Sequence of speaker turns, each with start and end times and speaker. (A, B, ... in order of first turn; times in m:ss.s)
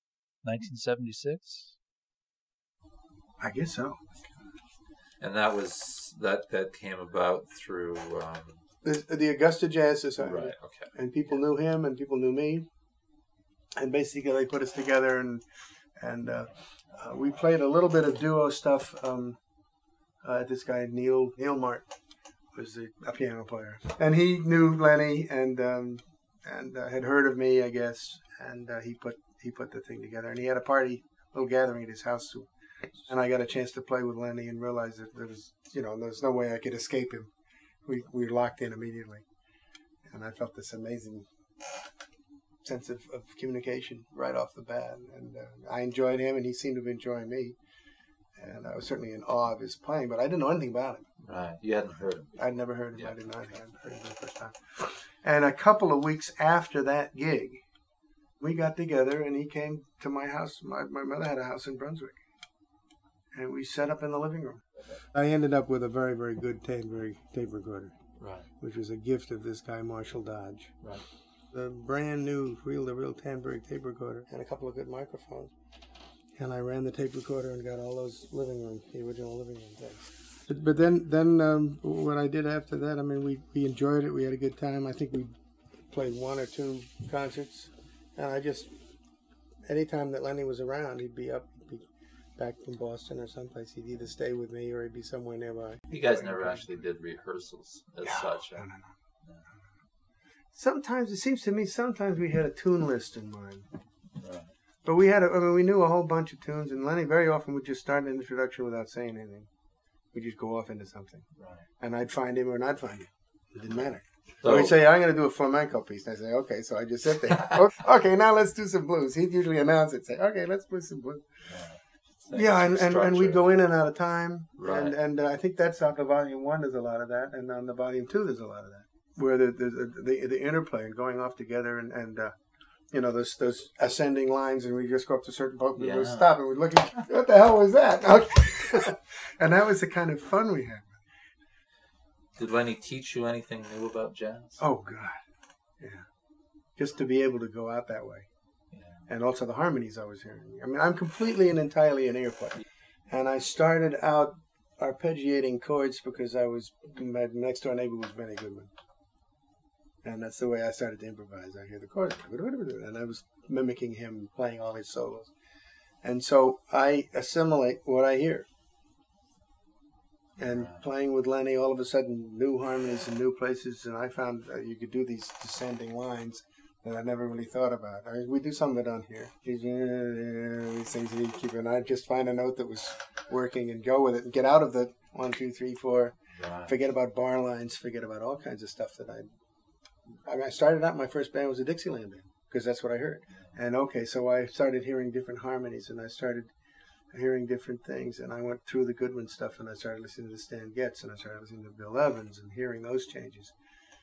0:00.4-0:01.8 A
0:03.4-0:04.2 B
0:05.2-0:08.6 A
0:08.8-0:12.7 B
0:10.2-0:10.9 A
0:13.8-0:15.4 B
0:16.0-0:19.4 B
0:20.2-0:21.9 B
0:22.5-0:32.5 B
0:33.0-0:37.3 B
0:37.8-0:39.3 B
0:40.1-0:41.3 B
0:42.6-0:47.6 B
0:48.4-0:51.1 B
0:51.2-0:52.4 A
0:52.4-0:57.6 B
0:58.4-1:02.2 B
1:03.4-1:08.0 B
1:08.2-1:08.5 A
1:08.6-1:10.8 B
1:11.5-1:15.5 B
1:16.4-1:25.3 B
1:25.9-1:28.7 B
1:29.7-1:36.7 B
1:35.9-1:38.7 A
1:38.0-1:38.9 B
1:40.5-1:43.7 B
1:44.2-1:44.5 A
1:44.8-1:49.5 B
1:50.1-1:51.3 B
1:51.4-1:51.6 A
1:51.8-2:01.3 B
1:54.4-1:54.7 A
2:01.5-2:03.6 A
2:02.3-2:12.3 B
2:04.6-2:05.0 A
2:12.9-2:21.0 B
2:15.8-2:16.3 A
2:22.4-2:24.6 A
2:24.6-2:25.2 B
2:25.8-2:26.1 B
2:26.8-2:28.3 B
2:28.7-2:29.0 A
2:29.1-2:38.7 B
2:40.0-2:45.3 B
2:46.0-2:48.5 B
2:50.4-3:09.3 B
2:50.5-2:50.8 A
3:06.4-3:06.7 A
3:10.2-3:16.5 B
3:17.1-3:23.5 B